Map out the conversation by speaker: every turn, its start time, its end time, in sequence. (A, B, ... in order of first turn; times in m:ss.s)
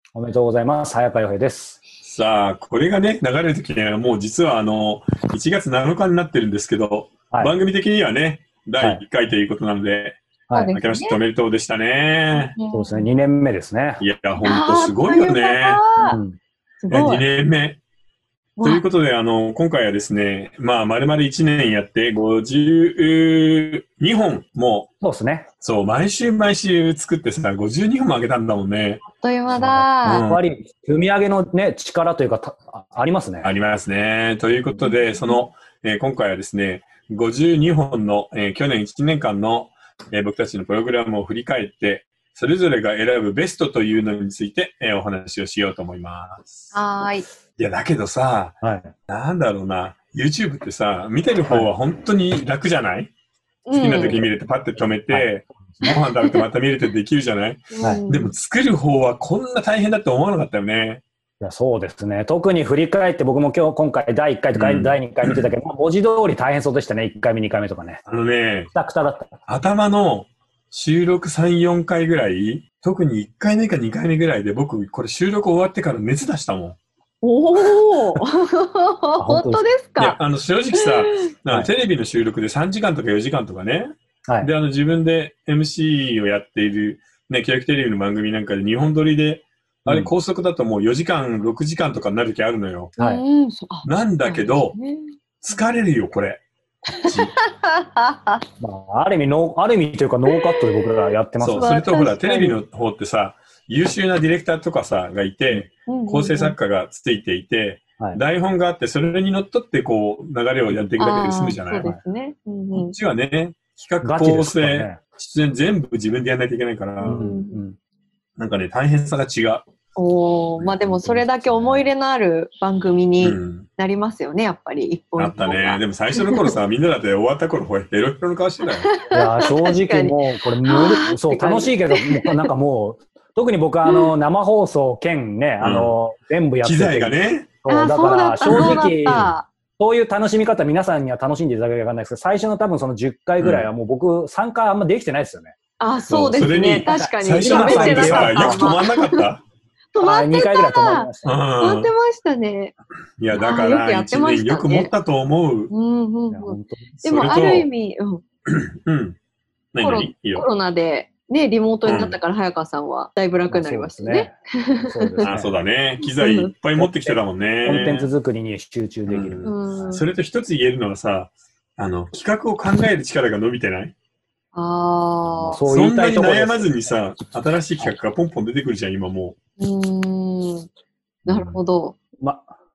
0:00.1-0:01.8 A
0:02.0-0:10.2 B
0:10.5-0:11.2 C
0:10.7-0:12.5 B
0:12.3-0:13.1 C
0:12.7-0:14.0 A
0:14.0-0:15.8 B
0:14.4-0:16.2 C
0:16.0-0:16.4 A
0:16.8-0:17.2 C
0:16.9-0:17.8 B
0:18.6-0:24.9 B
0:25.0-0:25.5 A
0:25.6-0:29.0 B
0:29.0-0:30.3 C
0:29.6-0:30.4 B
0:29.6-0:33.5 A
0:33.4-0:46.7 B
0:34.8-0:35.4 C
0:46.7-0:47.2 C
0:47.6-0:48.6 B
0:48.6-0:48.9 A
0:49.1-0:53.1 B
0:53.7-0:54.2 C
0:53.7-1:01.0 B
0:53.9-0:54.3 A
0:55.1-0:55.9 A
0:55.8-0:56.4 C
0:57.7-0:58.3 C
1:01.4-1:08.0 A
1:04.5-1:05.4 B
1:08.1-1:08.7 B
1:08.7-1:09.4 A
1:09.5-1:16.8 B
1:17.2-1:20.2 C
1:19.2-1:19.6 A
1:20.0-1:32.9 B
1:20.8-1:21.2 C
1:29.8-1:30.1 A
1:33.0-1:35.1 C
1:33.8-1:34.8 B
1:35.4-1:36.4 B
1:37.0-1:38.4 C
1:37.0-1:37.4 B
1:38.6-1:41.7 A
1:41.4-1:51.9 B
1:41.6-1:42.6 C
1:45.9-1:46.6 C
1:51.0-1:52.9 C
1:52.7-1:57.3 B
1:54.0-1:55.0 A
1:57.0-1:57.6 C
1:57.0-1:57.8 A
1:58.4-1:59.6 B
2:00.0-2:06.6 C
2:00.8-2:01.9 A
2:03.2-2:03.7 B
2:05.2-2:08.9 B
2:08.8-2:12.5 C
2:09.1-2:25.5 A
2:13.9-2:14.1 C
2:15.6-2:16.0 B
2:16.6-2:17.5 B
2:17.7-2:19.5 C
2:18.5-2:19.3 B
2:23.4-2:23.7 B
2:25.8-2:29.2 C
2:26.1-2:29.4 B
2:26.8-2:28.7 A
2:29.9-2:32.7 C
2:30.0-2:31.4 A
2:31.2-2:31.9 B
2:33.2-2:35.7 B
2:33.3-2:34.9 C
2:35.7-2:38.2 C
2:36.3-2:36.9 A
2:37.0-2:37.7 B
2:38.4-2:39.2 B
2:39.7-2:40.4 B
2:39.8-2:45.3 C
2:41.8-2:42.2 B
2:43.5-2:44.3 A
2:44.8-2:45.5 A
2:45.2-2:48.1 B
2:46.0-2:46.5 C
2:46.8-2:50.0 A
2:49.1-2:53.9 B
2:49.4-2:50.0 C
2:54.5-2:55.6 C
2:55.4-2:56.7 A
2:55.6-2:59.4 B
2:59.6-3:00.7 C
3:01.3-3:01.6 B
3:01.3-3:02.0 C
3:02.2-3:02.5 A